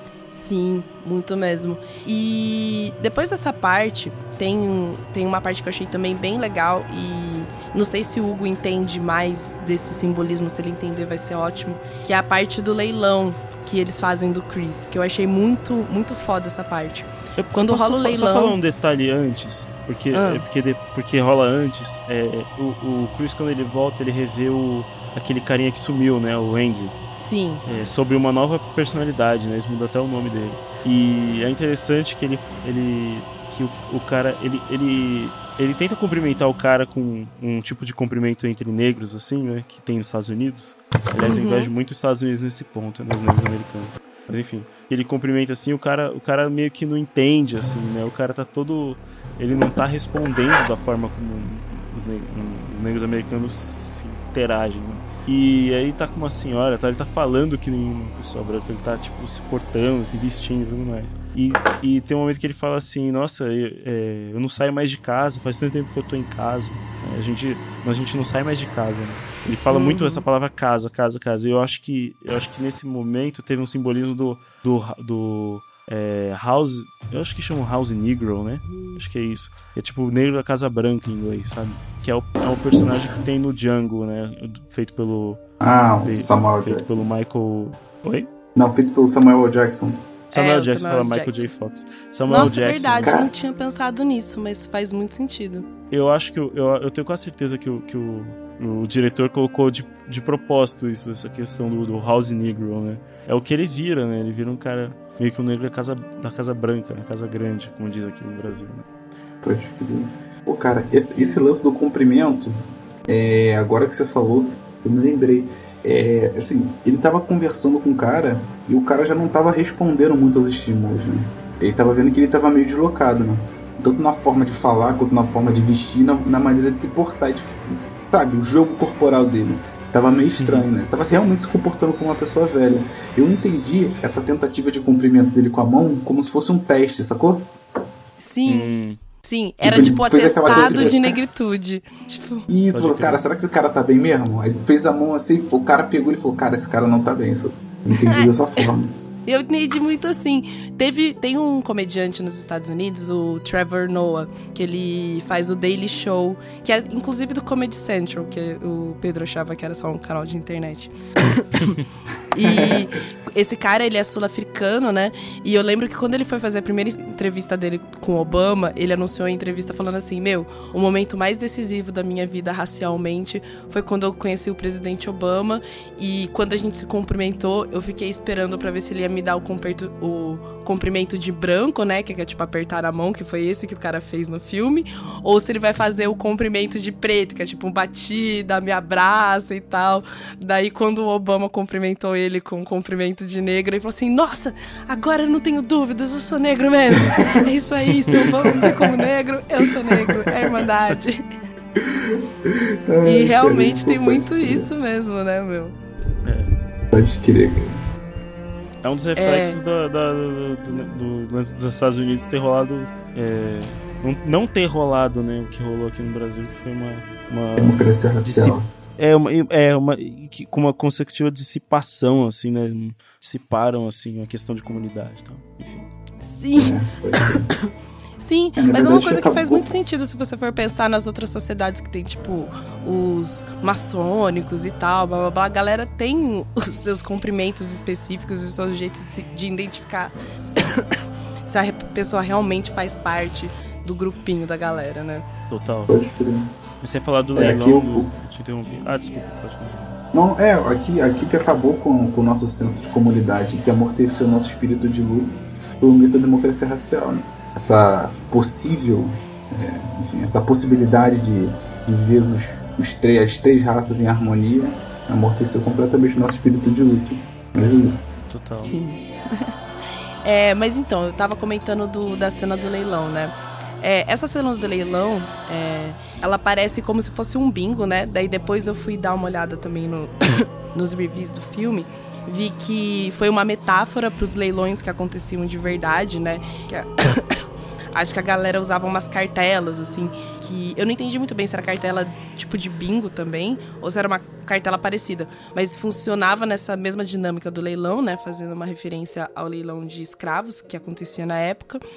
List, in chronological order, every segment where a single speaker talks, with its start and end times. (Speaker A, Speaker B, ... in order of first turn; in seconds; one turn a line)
Speaker A: 0.3-18.6
Speaker B: 17.4-26.9
Speaker A: 20.1-20.4
Speaker A: 27.2-27.6
Speaker B: 27.6-85.4
Speaker A: 41.2-41.7
Speaker A: 69.7-70.2
Speaker C: 85.6-87.0
Speaker B: 86.0-88.3
Speaker C: 88.6-90.0
Speaker B: 90.3-93.1
Speaker A: 90.3-91.5
Speaker A: 92.3-95.7
Speaker C: 93.0-93.3
Speaker B: 95.9-108.9
Speaker C: 109.4-137.5
Speaker B: 130.4-130.7
Speaker A: 138.2-138.7
Speaker B: 138.5-139.0
Speaker A: 139.2-142.5
Speaker C: 139.6-141.1
Speaker B: 140.4-141.0
Speaker C: 142.5-148.9
Speaker B: 142.7-143.2
Speaker A: 147.9-148.7
Speaker A: 149.3-161.8
Speaker A: 162.3-201.2
Speaker C: 162.4-162.7
Speaker C: 197.1-197.3
Speaker C: 198.2-199.1
Speaker C: 199.7-200.6
Speaker C: 201.8-204.7
Speaker A: 203.0-205.8
Speaker B: 206.2-206.5
Speaker C: 206.9-207.8
Speaker B: 208.8-225.9
Speaker A: 209.2-209.6
Speaker C: 217.6-218.7
Speaker A: 226.2-227.6
Speaker C: 226.6-227.5
Speaker A: 228.2-245.3
Speaker C: 228.6-229.7
Speaker B: 245.5-245.9
Speaker C: 245.9-246.5
Speaker B: 246.8-249.9
Speaker C: 247.3-248.1
Speaker C: 250.1-268.1
Speaker B: 268.3-268.8
Speaker A: 268.6-269.6
Speaker A: 270.2-301.8